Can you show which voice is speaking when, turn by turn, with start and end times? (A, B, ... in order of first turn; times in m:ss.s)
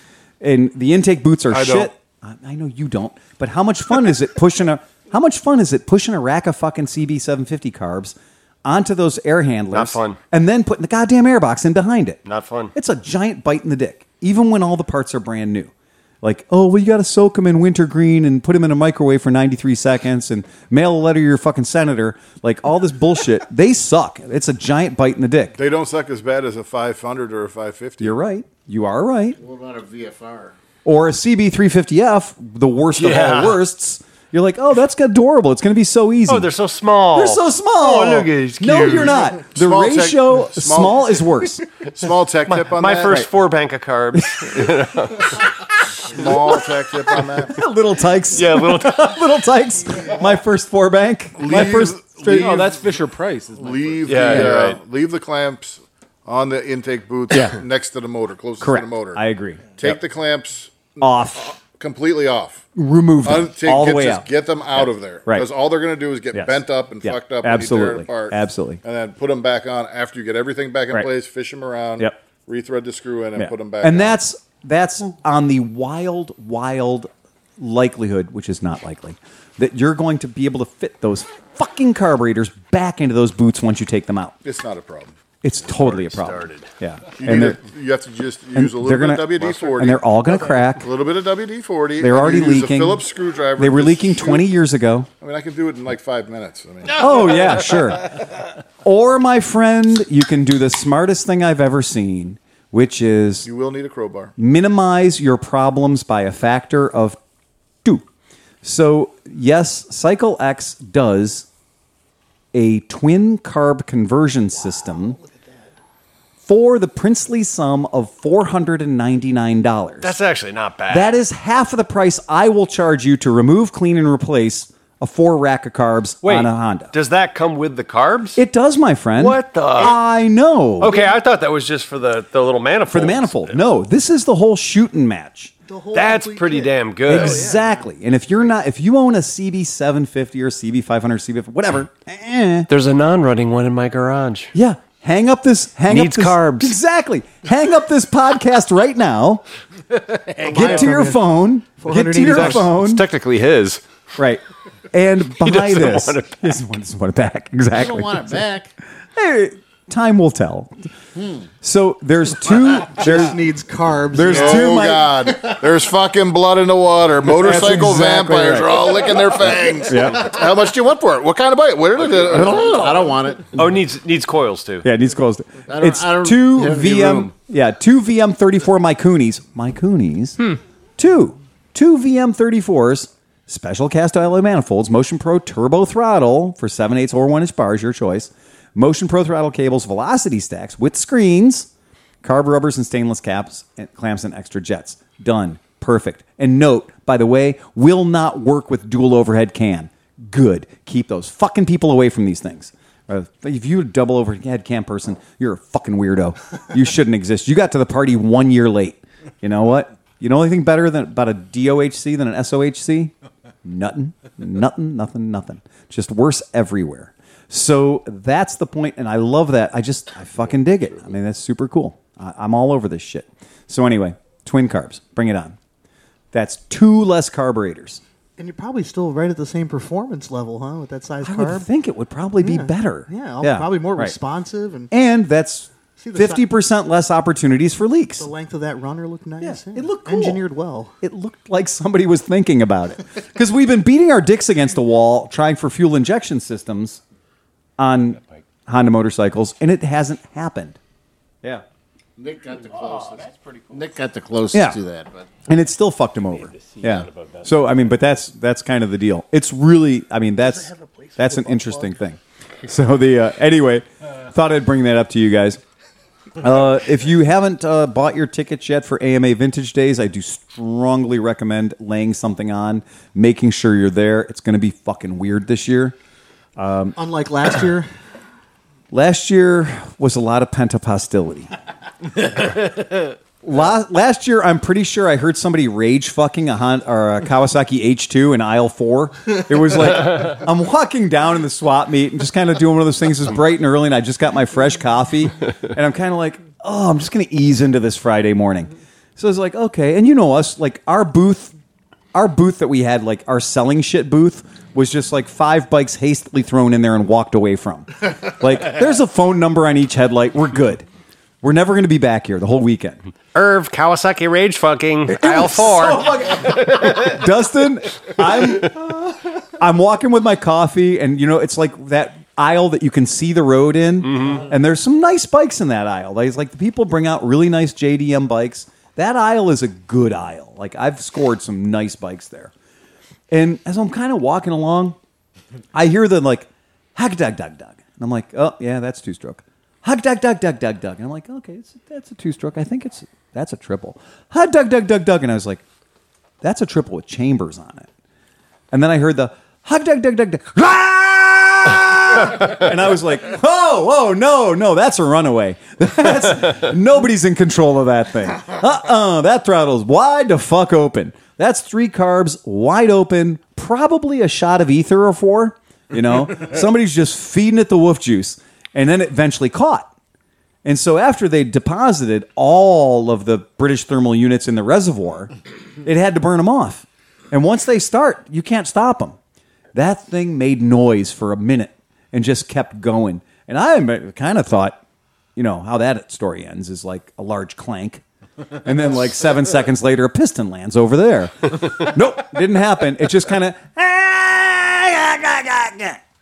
0:00.4-0:12.2 A
0:01.5-0:01.9 B
0:09.7-0:10.2 C
0:12.2-0:12.7 C
0:12.7-0:15.7 A
0:16.2-0:25.6 A
0:25.6-0:28.2 B
0:28.0-0:29.4 A
0:29.4-0:30.6 D
0:30.8-0:36.5 A
0:33.0-0:33.6 C
0:36.3-0:39.2 C
0:37.1-0:41.6 A
0:39.4-0:41.3 B
0:41.8-0:43.2 B
0:42.5-0:45.4 C
0:43.0-0:43.3 A
0:44.2-0:44.6 A
0:46.1-0:47.6 B
0:47.4-0:52.6 A
0:48.3-0:49.2 C
0:51.4-0:52.8 B
0:51.6-0:54.3 E
0:53.6-0:59.2 B
0:54.1-0:54.8 C
0:57.3-0:57.6 A
0:58.6-1:00.0 A
0:59.8-1:02.6 B
1:01.0-1:01.5 A
1:02.8-1:05.5 A
1:03.2-1:14.2 B
1:06.3-1:08.8 A
1:13.4-1:24.4 A
1:24.4-1:25.1 B
1:25.4-1:27.6 A
1:25.6-1:26.7 C
1:27.2-1:30.0 B
1:28.5-1:30.9 A
1:30.8-1:34.5 B
1:32.0-1:33.0 A
1:33.6-1:35.1 A
1:35.2-1:37.4 B
1:37.0-1:38.3 A
1:38.8-1:43.5 A
1:43.4-1:44.3 B
1:44.4-1:47.2 A
1:48.6-1:51.5 A
1:52.5-1:55.2 A
1:55.2-1:55.6 F
1:56.4-2:00.1 A
2:00.0-2:01.1 C
2:00.9-2:06.9 A
2:06.2-2:08.4 C
2:08.4-2:11.0 A
2:09.2-2:10.0 C
2:10.8-2:13.6 C
2:12.9-2:15.5 A
2:15.7-2:17.8 F
2:15.9-2:17.5 C
2:17.1-2:22.7 A
2:22.7-2:24.5 C
2:24.5-2:29.4 A
2:25.9-2:26.8 C
2:30.3-2:31.0 D
2:30.5-2:31.2 F
2:30.5-2:33.0 A
2:31.8-2:32.7 F
2:32.2-2:33.8 C
2:34.2-2:38.4 A
2:35.4-2:36.4 C
2:37.7-2:38.7 D
2:39.2-2:40.8 A
2:41.2-2:41.5 D
2:41.6-2:43.4 A
2:43.0-2:44.7 F
2:44.1-2:45.2 A
2:44.2-2:52.8 B
2:47.2-2:49.0 A
2:48.9-2:50.1 D
2:49.8-2:50.3 A
2:52.0-2:53.6 D
2:52.3-2:53.2 A
2:53.5-2:54.9 C
2:54.8-3:00.4 A
2:55.7-2:57.3 D
3:01.0-3:11.7 A
3:12.2-3:33.1 A
3:33.6-3:45.6 A
3:46.3-3:48.0 A
3:48.4-3:51.7 F
3:51.2-3:54.2 A
3:52.4-3:54.9 F
3:54.9-3:58.3 A
3:56.0-3:56.4 F
3:58.2-4:01.0 F
3:59.4-4:00.4 A
4:01.0-4:07.0 A
4:07.8-4:10.8 A
4:12.2-4:15.4 D
4:14.5-4:14.8 A
4:15.4-4:25.6 A
4:26.4-4:36.0 A
4:36.6-4:37.0 A
4:37.0-4:37.9 F
4:38.9-4:41.5 A
4:43.4-5:01.6 A
5:02.1-5:10.8 A
5:11.4-5:13.0 A
5:13.3-5:17.1 C
5:15.1-5:32.5 A
5:24.0-5:24.4 C
5:33.3-5:35.0 A
5:35.7-5:45.6 A
5:46.4-5:47.9 A
5:48.7-6:09.9 A
6:10.6-6:19.2 A
6:19.7-6:24.8 A
6:25.4-6:28.0 A
6:28.6-6:36.0 A